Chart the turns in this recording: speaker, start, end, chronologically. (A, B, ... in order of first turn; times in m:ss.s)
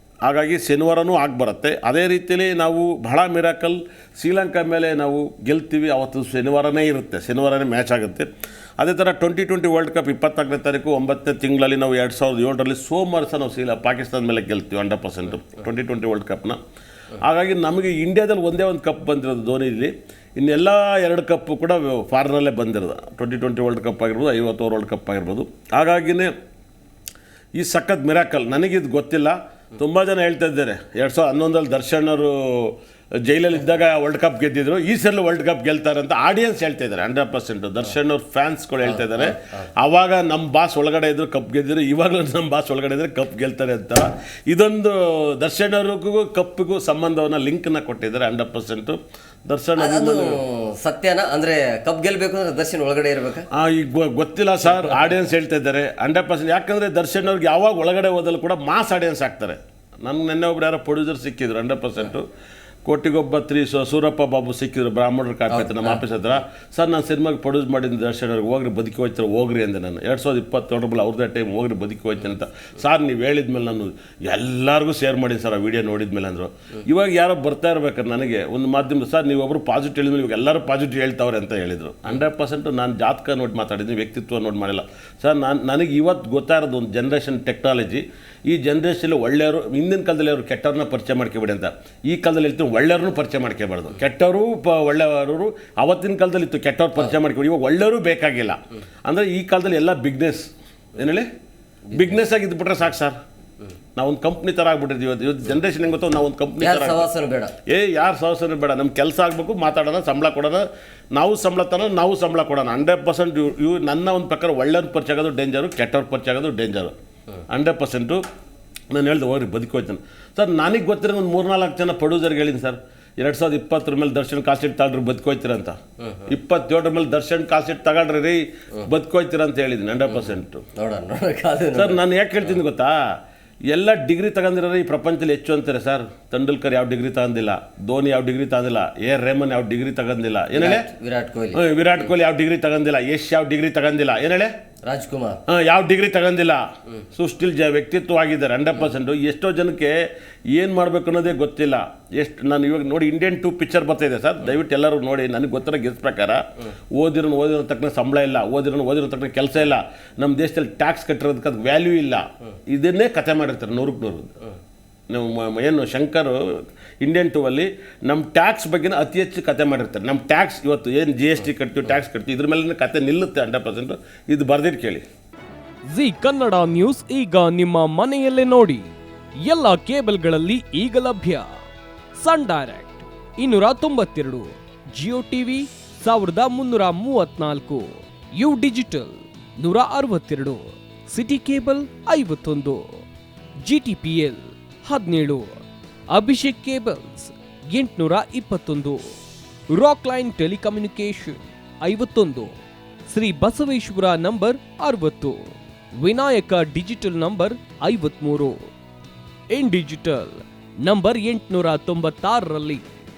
0:00.2-0:16.6 A
0:17.2-0:26.3 A
0:27.6-0:50.4 A
0:38.9-0:39.6 B
0:49.8-0:53.5 B
0:53.5-1:02.2 A
1:02.8-1:41.3 A
1:05.5-1:06.0 B
1:41.9-1:43.2 A
1:44.0-1:47.1 A
1:46.6-1:47.5 B
1:47.7-1:56.9 A
1:57.5-1:58.2 A
1:58.9-2:10.6 A
2:10.8-2:12.0 B
2:11.7-2:13.0 A
2:13.7-2:20.8 A
2:20.6-2:21.6 B
2:21.5-2:24.5 A
2:24.8-2:25.4 B
2:25.5-2:36.4 A
2:36.9-2:44.3 A
2:45.1-2:55.0 A
2:55.9-2:58.9 C
2:59.4-3:01.5 C
3:02.2-3:13.0 C
3:13.6-3:15.6 C
3:16.1-3:19.1 C
3:19.7-3:22.5 C
3:23.1-3:28.7 C
3:29.5-3:32.8 C